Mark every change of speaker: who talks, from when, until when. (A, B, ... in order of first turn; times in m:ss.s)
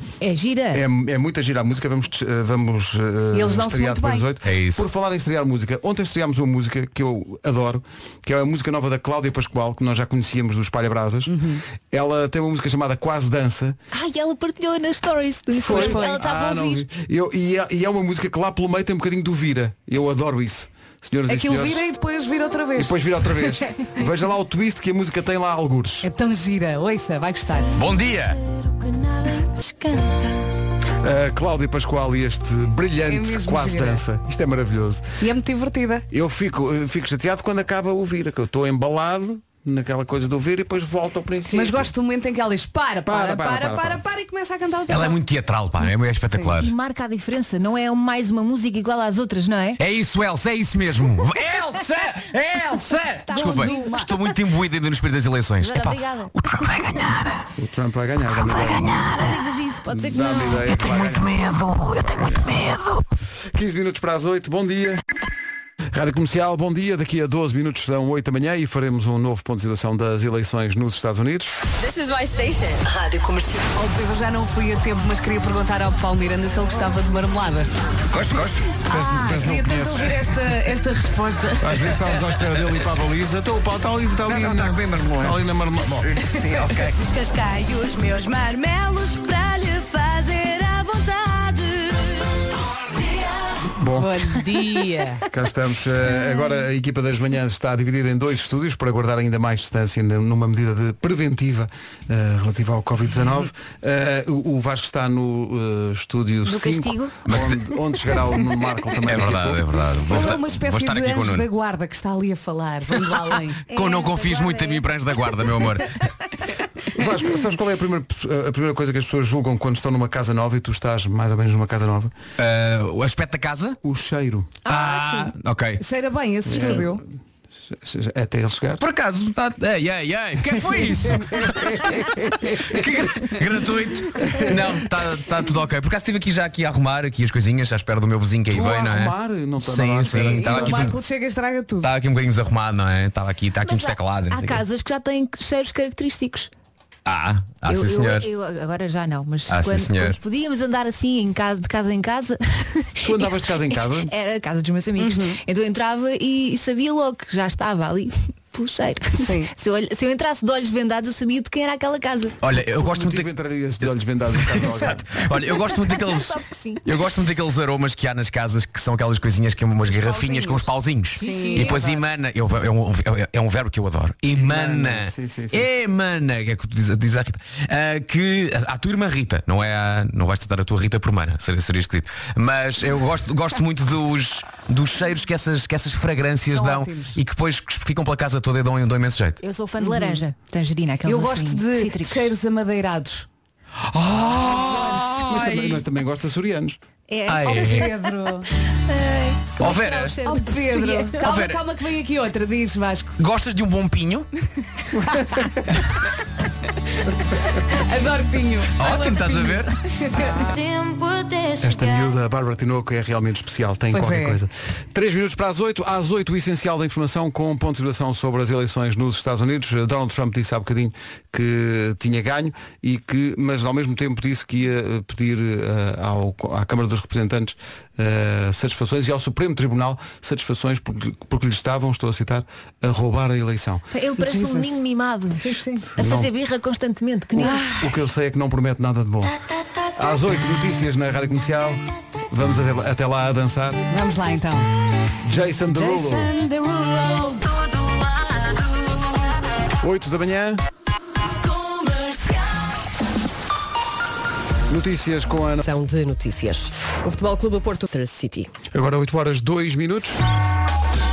0:00.2-0:00.8 A
0:00.7-0:11.3 B
0:03.3-0:04.3 C
0:04.4-0:04.9 D
0:11.3-0:11.6 C
0:11.9-0:13.8 B
0:13.9-0:16.8 A
0:15.6-0:21.8 B
0:15.6-0:16.2 C
0:21.3-0:23.6 C
0:22.8-0:26.1 B
0:26.0-0:27.8 C
0:27.7-0:28.4 D
0:28.5-0:29.3 E
0:29.9-0:30.2 E
0:31.0-0:35.1 B
0:33.1-0:34.0 C
0:35.2-0:36.1 C
0:36.1-0:41.9 B
0:41.5-0:45.2 C
0:43.1-0:44.0 B
0:44.9-0:46.7 D
0:46.6-0:49.8 A
0:49.8-0:57.4 D
0:53.3-0:53.8 A
0:53.3-0:54.1 C
0:55.6-0:56.4 A
0:57.6-0:59.1 B
0:58.5-0:59.4 D
0:59.0-1:00.7 A
0:59.9-1:01.4 B
1:00.7-1:03.0 D
1:02.0-1:02.5 B
1:03.5-1:05.0 B
1:05.9-1:11.5 B
1:11.8-1:13.7 E
1:13.8-1:17.7 C
1:18.1-1:18.6 F
1:18.9-1:21.9 C
1:18.9-1:20.2 B
1:21.6-1:26.1 B
1:24.3-1:25.4 F
1:26.0-1:27.0 F
1:27.0-1:29.4 E
1:27.6-1:28.6 C
1:29.3-1:30.9 C
1:30.8-1:32.1 E
1:33.7-1:34.2 B
1:34.0-1:35.2 C
1:35.3-1:49.8 B
1:46.4-1:47.2 A
1:47.3-1:47.6 D
1:49.0-1:51.5 D
1:50.1-1:53.6 C
1:53.7-1:55.6 A
1:53.7-1:56.0 D
1:56.9-2:02.1 B
2:02.4-2:03.8 D
2:03.8-2:04.5 B
2:04.6-2:05.3 A
2:04.7-2:05.8 D
2:05.8-2:07.0 C
2:06.5-2:07.0 B
2:07.7-2:08.8 B
2:08.8-2:21.0 D
2:10.6-2:13.4 B
2:14.2-2:14.7 B
2:18.5-2:20.9 B
2:20.2-2:21.9 C
2:21.8-2:24.6 D
2:23.6-2:26.5 A
2:27.1-2:28.3 D
2:27.7-2:33.4 A
2:29.5-2:30.2 D
2:33.0-2:34.1 B
2:34.0-2:42.4 A
2:35.0-2:35.4 C
2:39.2-2:39.5 C
2:42.4-2:43.3 D
2:42.8-2:45.3 B
2:44.4-3:09.4 D
2:45.7-2:46.8 A
2:49.9-2:52.1 C
2:51.2-2:52.0 A
2:54.3-2:55.7 B
3:06.5-3:07.2 C
3:09.4-3:12.3 A
3:09.8-3:10.2 C
3:11.0-3:13.3 C
3:14.0-3:15.9 D
3:14.0-3:16.8 B
3:14.6-3:15.1 C
3:17.1-3:18.0 A
3:17.3-3:17.9 D
3:17.4-3:18.5 C
3:18.9-3:21.2 A
3:19.6-3:20.2 D
3:20.2-3:23.2 C
3:21.2-3:21.6 D
3:23.2-3:24.3 D
3:24.9-3:25.7 B
3:27.7-3:30.5 C
3:28.8-3:29.8 D
3:30.3-3:32.1 E
3:31.6-3:53.8 B
3:33.9-3:34.4 C
3:53.9-3:57.6 A
3:54.2-3:54.8 C
3:55.5-3:55.8 C
3:55.9-3:56.3 B
3:57.4-3:59.3 B
3:57.4-3:57.8 C
4:00.0-4:03.8 B
4:03.9-4:04.7 C
4:05.2-4:06.3 B
4:05.7-4:07.5 C
4:07.6-4:08.6 E
4:09.8-4:10.6 B
4:11.7-4:12.2 E
4:14.7-4:15.7 B
4:15.6-4:18.5 G
4:18.7-4:20.2 B